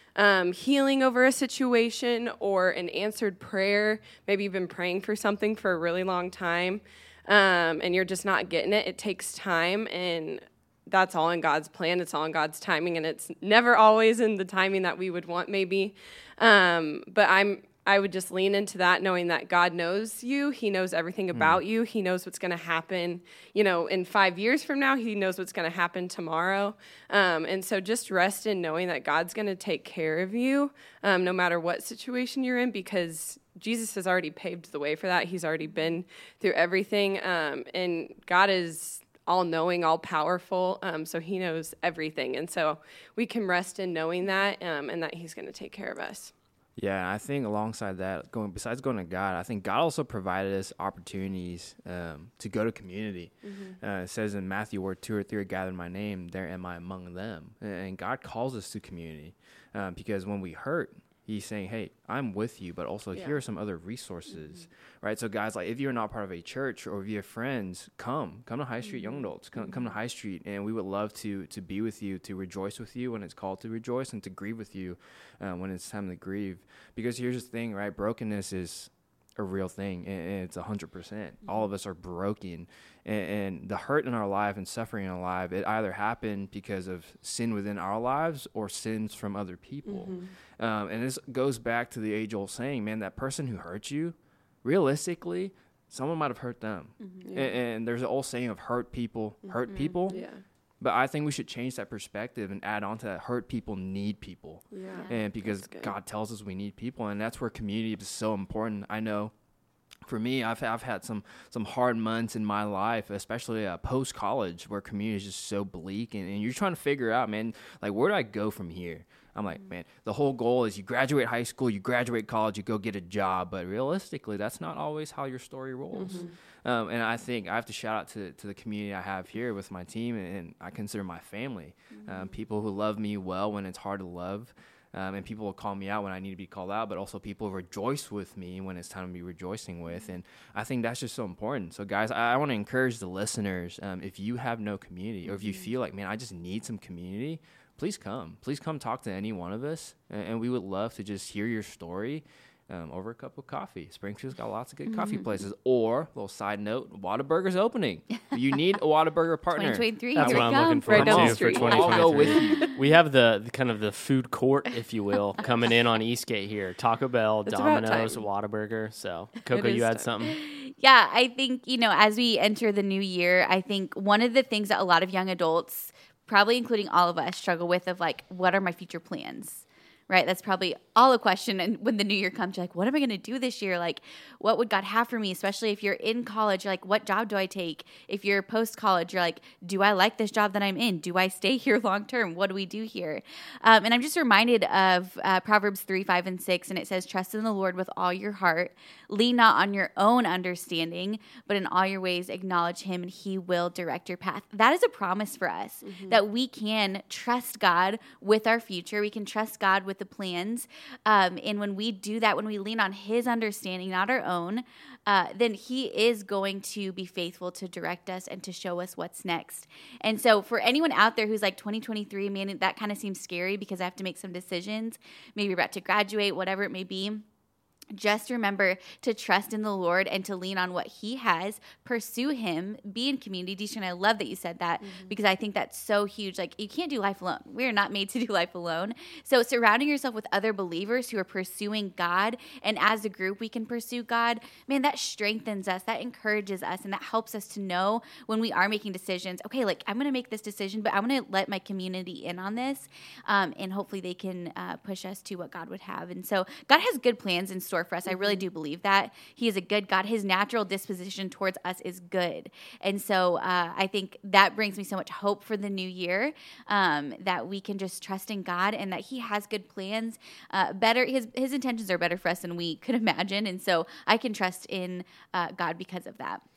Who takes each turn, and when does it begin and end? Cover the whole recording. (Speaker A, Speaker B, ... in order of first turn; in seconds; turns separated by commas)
Speaker A: 0.1-46.3, Speaker B: 21.3-21.6, Speaker B: 46.8-100.2, Speaker A: 53.4-53.8, Speaker A: 63.1-63.4, Speaker A: 89.8-90.3, Speaker C: 97.0-97.3, Speaker A: 97.2-97.6, Speaker A: 99.4-100.4, Speaker B: 100.8-109.3, Speaker A: 104.7-105.9, Speaker C: 104.9-105.2, Speaker B: 110.0-162.7, Speaker A: 125.9-126.3, Speaker C: 145.3-145.7, Speaker C: 154.9-155.3, Speaker C: 159.5-162.7, Speaker D: 160.2-170.4, Speaker A: 160.8-162.5, Speaker A: 167.4-168.2, Speaker A: 169.5-170.1, Speaker C: 170.2-227.2, Speaker A: 205.8-206.2, Speaker C: 227.9-276.4, Speaker A: 234.8-235.1